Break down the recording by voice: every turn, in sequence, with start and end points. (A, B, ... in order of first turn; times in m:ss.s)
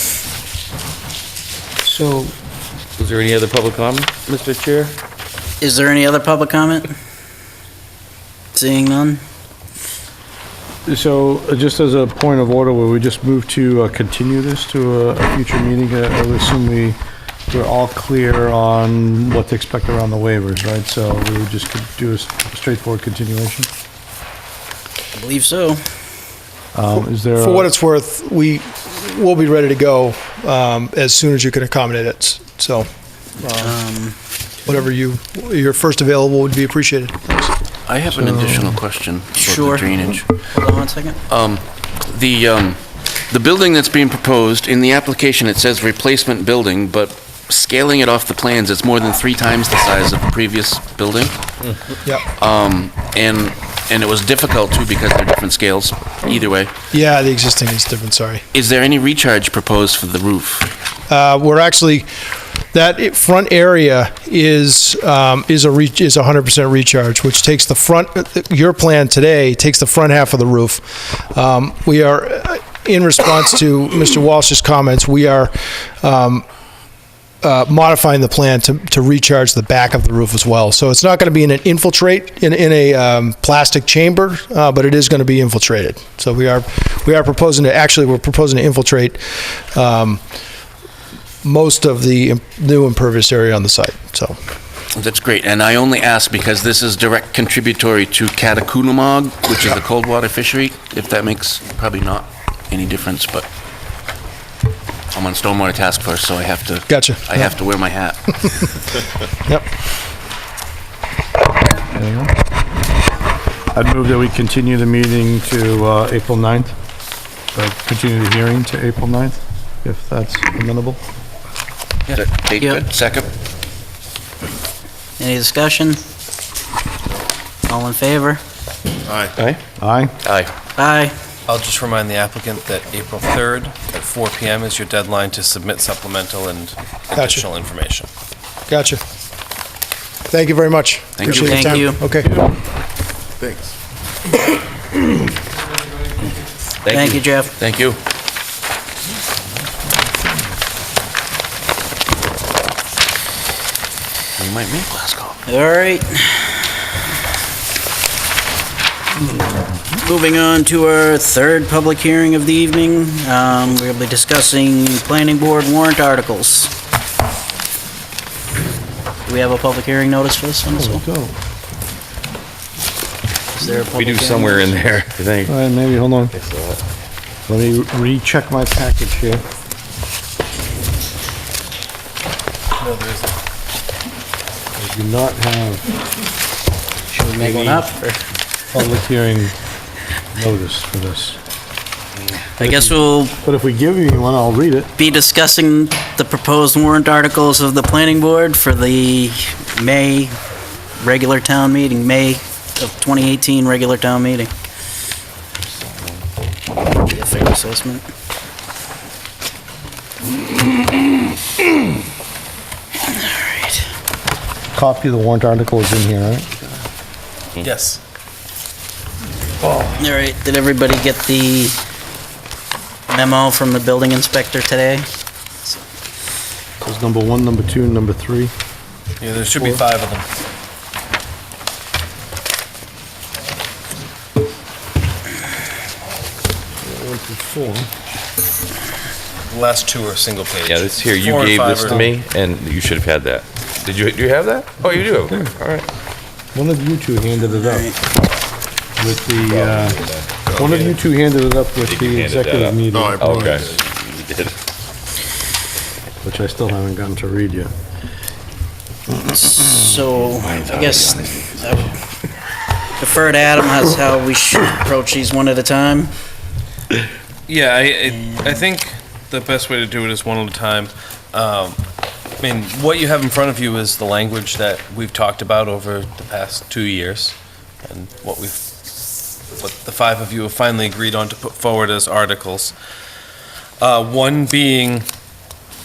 0:01.8-0:02.3 A
0:03.0-0:04.9 B
0:05.6-0:06.9 C
0:08.5-0:09.2 C
0:10.8-0:17.0 A
0:17.5-0:23.7 A
0:25.1-0:25.8 C
0:26.7-0:27.7 A
0:27.4-0:32.9 D
0:33.4-0:33.8 D
0:33.6-0:34.2 C
0:34.6-0:37.5 D
0:37.9-0:40.3 E
0:38.2-0:38.7 A
0:39.4-0:41.2 C
0:41.3-0:51.4 E
0:52.4-0:56.7 E
0:56.9-0:58.4 D
0:58.5-1:00.7 E
1:01.1-1:02.1 D
1:02.7-1:16.4 D
1:17.4-1:30.2 D
1:31.4-1:34.4 D
1:34.9-1:43.4 E
1:45.1-1:48.7 E
1:46.9-1:47.5 D
1:51.9-1:52.3 A
1:53.7-1:56.7 A
1:57.5-2:01.0 A
2:02.1-2:03.3 E
2:05.2-2:06.0 C
2:07.7-2:08.4 C
2:09.0-2:09.3 F
2:09.8-2:10.1 A
2:10.2-2:10.5 E
2:10.8-2:11.1 C
2:11.5-2:18.1 G
2:17.1-2:17.4 D
2:18.7-2:19.0 D
2:20.3-2:22.4 D
2:21.2-2:21.9 E
2:21.3-2:22.1 C
2:23.4-2:23.7 F
2:26.9-2:28.0 E
2:26.9-2:27.5 C
2:34.4-2:35.4 E
2:35.5-2:36.6 C
2:40.0-2:46.7 C
2:49.2-2:51.0 C
2:50.8-2:51.3 A
2:53.6-2:54.8 C
2:54.0-2:55.5 B
2:55.4-2:56.3 A
2:56.3-2:56.8 B
2:57.5-2:59.4 A
3:02.8-3:03.4 G
3:04.8-3:05.9 A
3:07.1-3:08.0 C
3:07.4-3:07.9 A
3:08.7-3:09.5 A
3:10.3-3:11.4 A
3:12.6-3:13.3 C
3:12.6-3:14.9 A
3:15.0-3:20.3 C
3:21.0-3:24.5 C
3:27.0-3:28.0 C
3:33.0-3:33.8 C
3:34.7-3:36.5 A
3:37.6-3:38.0 G
3:40.0-3:41.8 C
3:43.1-3:45.1 C
3:46.8-3:48.5 A
3:49.2-3:50.3 G
3:56.8-3:57.9 A
3:59.5-4:02.0 G
4:00.6-4:05.8 B
4:01.8-4:02.1 A
4:05.3-4:05.5 A
4:06.5-4:07.9 A
4:07.5-4:08.0 C
4:09.0-4:10.0 A
4:09.5-4:10.9 B
4:10.4-4:10.8 F
4:10.5-4:13.6 A
4:11.8-4:14.5 B
4:12.9-4:13.8 F
4:16.2-4:17.7 A
4:19.2-4:21.9 C
4:20.4-4:21.6 B
4:23.0-4:26.1 C
4:27.5-4:31.8 G
4:28.2-4:28.6 C
4:32.4-4:38.7 G
4:39.5-4:42.8 G
4:43.8-4:45.1 G